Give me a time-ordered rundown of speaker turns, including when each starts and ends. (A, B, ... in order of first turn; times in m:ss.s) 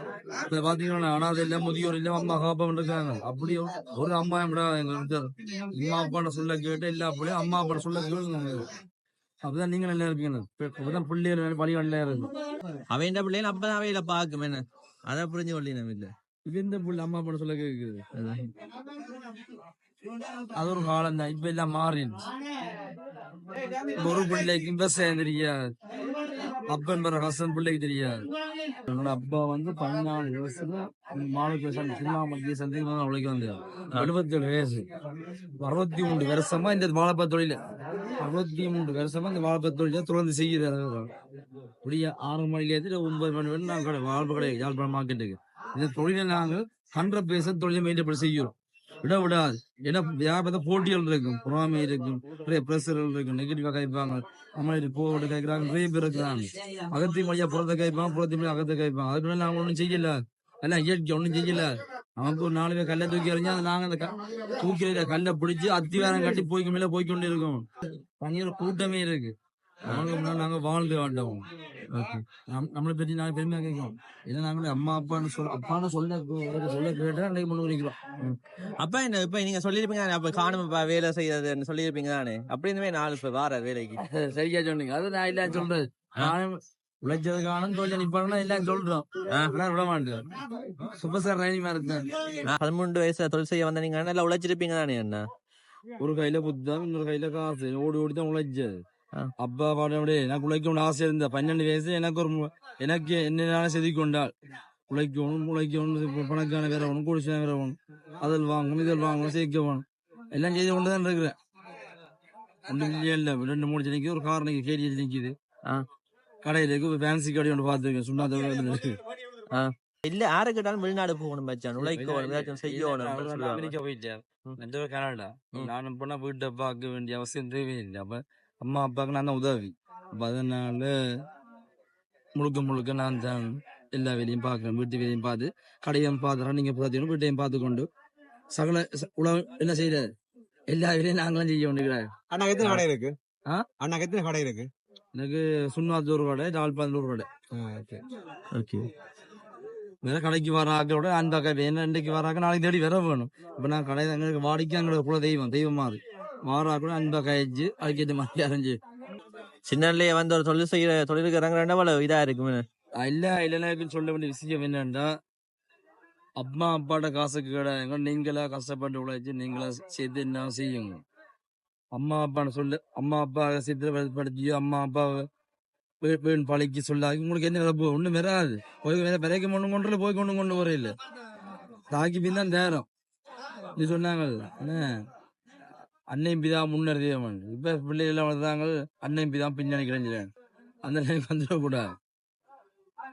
0:00.5-0:08.7 A
0:09.4-0:12.3 A
0:12.9-0:16.1 B
0:16.5-0:18.0 A
0:18.2-0:18.4 B
0:20.6-0:22.2 A
0:24.0-0:25.6 A
0:26.7-0:28.3 A
0:28.9-0:34.9 A
0:35.6-0:37.6 A
0:38.2-0:41.1 A
0:41.8-1:07.7 A
1:08.2-1:09.3 A
1:09.8-1:11.4 A
1:11.9-1:12.2 B
1:12.4-1:18.0 A
1:18.2-1:24.0 B
1:24.0-1:32.2 A
1:32.4-1:35.2 B
1:36.0-1:38.7 A
1:39.4-1:44.3 A
1:44.9-1:51.4 A
1:52.7-1:55.4 A
1:56.4-1:58.9 A
1:59.5-2:03.7 B
2:01.8-2:10.9 A
2:12.4-2:17.9 A
2:18.5-2:20.1 A
2:20.7-2:22.1 A
2:22.3-2:23.2 C
2:23.8-2:24.7 C
2:25.1-2:27.3 A
2:27.5-2:28.0 C
2:28.5-2:28.9 B
2:30.0-2:38.8 A
2:39.7-2:42.6 B
2:43.0-2:45.1 A
2:46.4-2:51.0 A
2:51.9-2:55.2 A
2:56.0-3:00.9 A
3:01.9-3:02.9 A
3:03.8-3:05.0 A
3:06.1-3:10.3 A
3:10.8-3:12.0 A